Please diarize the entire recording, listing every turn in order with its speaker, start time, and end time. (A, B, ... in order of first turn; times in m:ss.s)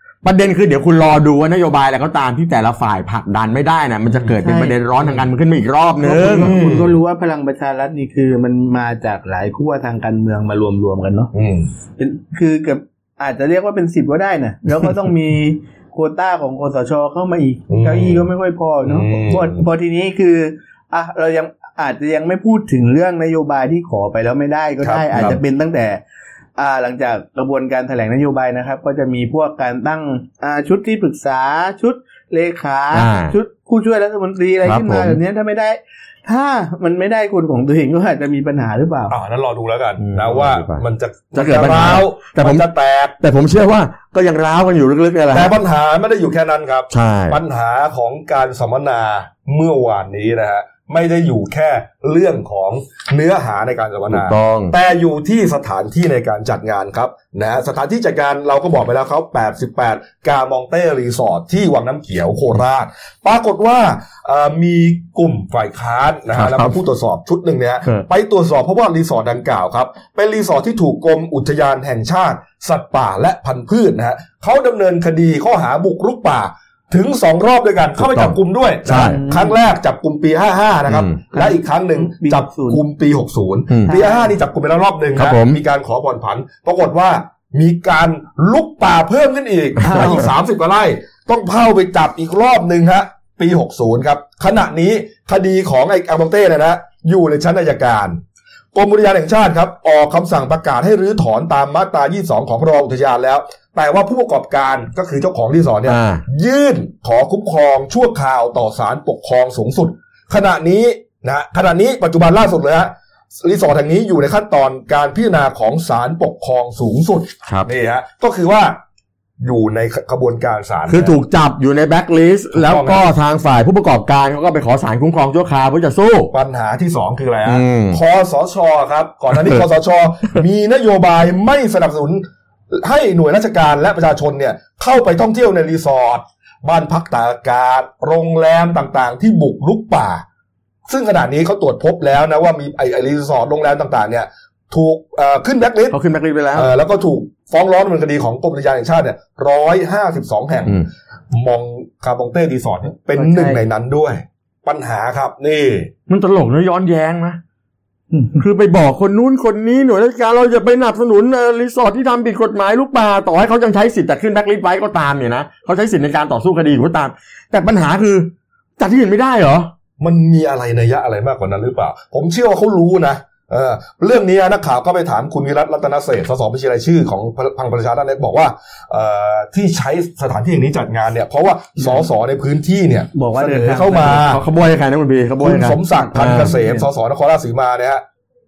0:00.2-0:06.6 A
0:04.4-0:04.8 B
0:06.0-0:11.3 B
0:06.4-0:06.9 C
0:11.3-0:11.7 C
0:12.0-0:26.0 B
0:17.7-0:18.3 C
0:18.8-0:19.6 C
0:24.8-0:25.4 C
0:26.6-0:39.1 B
0:32.9-0:33.4 A
0:34.6-0:35.2 A
0:39.1-0:43.2 C
0:40.0-0:40.8 A
0:41.3-0:42.6 A
0:43.2-0:45.6 A
0:45.3-1:38.2 C
0:46.9-0:47.4 A
0:54.1-0:54.7 A
1:06.4-1:06.8 A
1:18.0-1:19.2 A
1:18.9-1:19.6 B
1:20.9-1:21.2 A
1:21.3-1:22.8 B
1:23.9-1:24.3 B
1:25.2-1:25.6 A
1:29.8-1:30.2 A
1:29.9-1:30.2 B
1:38.7-1:58.8 C
1:45.8-1:46.2 A
1:59.4-2:01.2 C
2:00.9-2:06.3 A
2:02.5-2:03.1 C
2:06.3-2:20.2 C
2:07.4-2:08.0 A
2:09.3-2:09.6 A
2:20.9-2:26.0 C
2:25.9-2:26.7 A
2:26.5-2:35.9 C
2:33.2-2:33.6 B
2:36.1-2:37.4 A
2:38.1-2:38.4 B
2:38.4-2:49.7 A
2:50.0-3:04.4 C
3:03.1-3:04.2 B
3:04.0-3:06.5 A
3:05.4-3:08.0 C
3:05.9-3:06.8 B